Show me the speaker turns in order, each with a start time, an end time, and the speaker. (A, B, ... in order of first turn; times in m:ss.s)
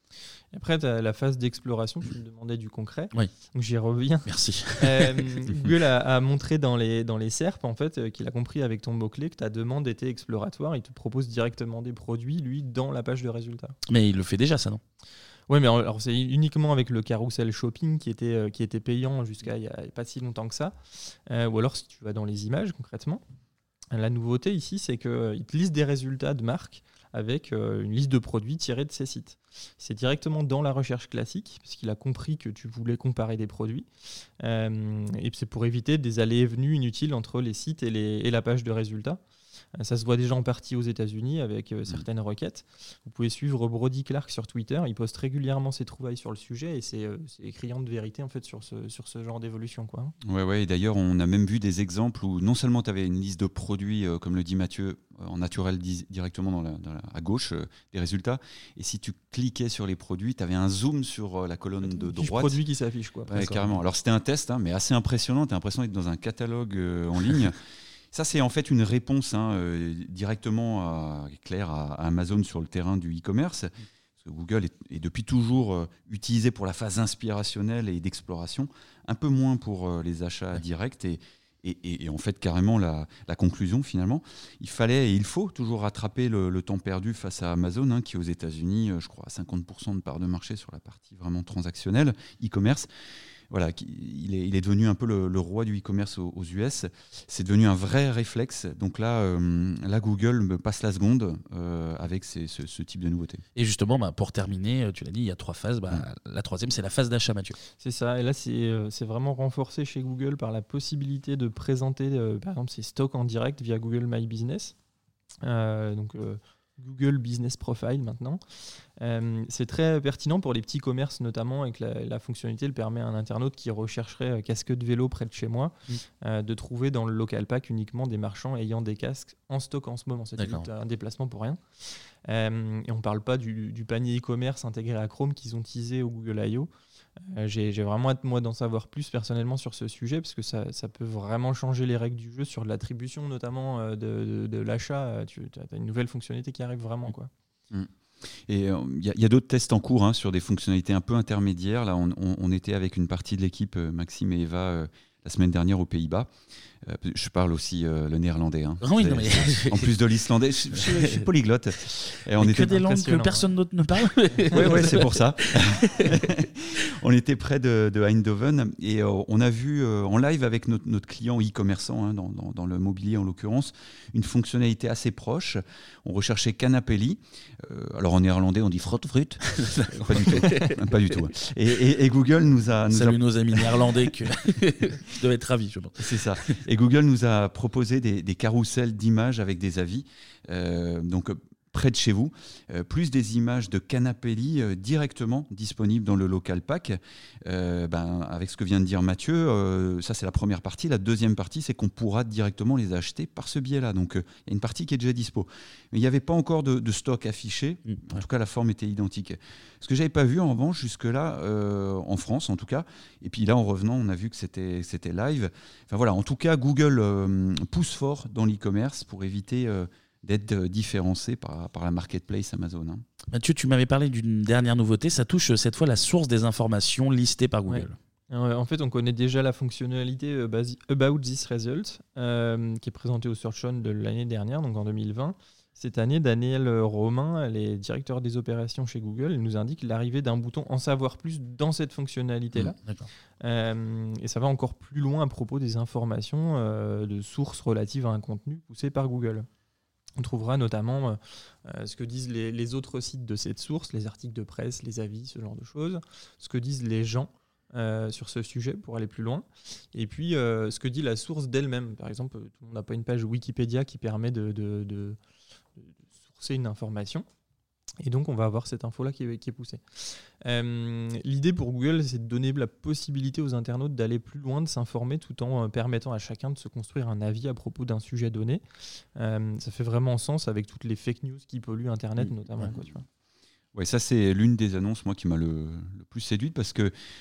0:00.5-0:13.8 A
0:04.3-0:05.3 B
0:13.9-0:14.8 B
0:15.5-0:20.8 A
0:21.3-0:23.2 A
0:23.9-0:33.9 A
0:34.4-0:39.2 A
0:39.8-0:50.1 A
0:50.2-1:02.6 C
1:02.0-1:03.3 A
1:03.3-1:07.6 C
1:03.3-1:03.7 B
1:08.1-1:32.9 C
1:33.5-1:43.4 C
1:43.6-1:47.6 B
1:47.8-1:54.7 A
1:55.4-1:58.4 A
1:59.0-2:16.7 A
2:10.4-2:10.6 B
2:17.3-2:27.3 A
2:28.5-2:36.3 C
2:36.8-2:42.8 C
2:38.8-2:40.0 B
2:40.8-2:41.2 B
2:42.3-2:46.2 B
2:42.7-2:43.5 A
2:44.5-2:45.0 A
2:44.5-3:03.9 C
2:59.4-3:00.9 B
3:02.9-3:06.5 B
3:06.0-3:43.0 C
3:27.9-3:28.2 B
3:43.3-3:48.0 B
3:47.7-4:02.8 A
4:02.8-4:03.1 B
4:03.4-4:09.5 A
4:10.2-4:25.2 A
4:25.8-4:27.3 A
4:28.0-4:38.6 A
4:39.2-4:43.0 A
4:43.8-4:46.9 C